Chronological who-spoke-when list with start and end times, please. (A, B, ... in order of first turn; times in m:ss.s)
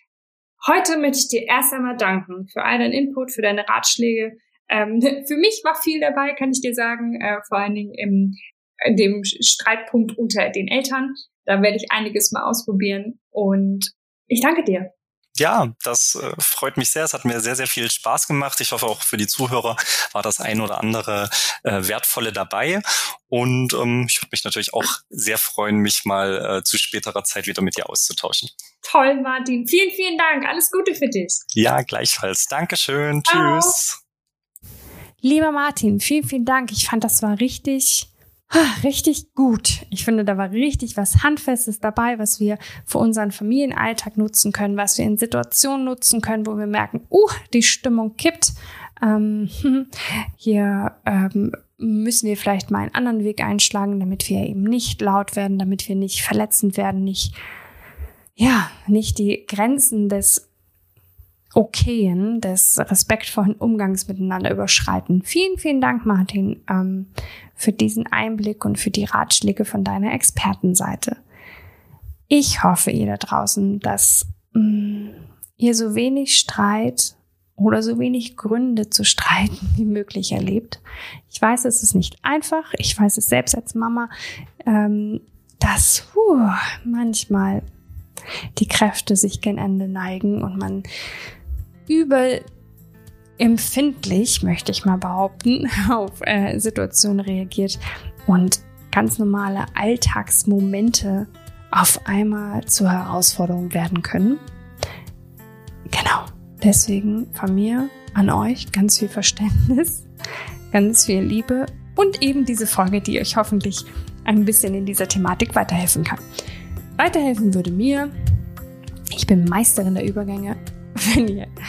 0:00.6-0:14.9 A
0:15.4-0:28.5 B
0:28.8-0:31.4 A
0:31.5-0:34.0 B
0:33.3-0:33.8 A
0:35.2-0:57.3 C
0:58.4-1:00.4 C
1:01.5-1:11.2 C
1:12.3-1:24.1 C
1:24.6-1:27.6 C
1:28.6-1:30.8 C
1:31.9-1:32.4 C
1:33.4-1:44.4 C
1:45.9-1:50.0 C
1:50.7-1:56.2 C
1:57.0-1:58.1 C
1:59.1-2:01.5 C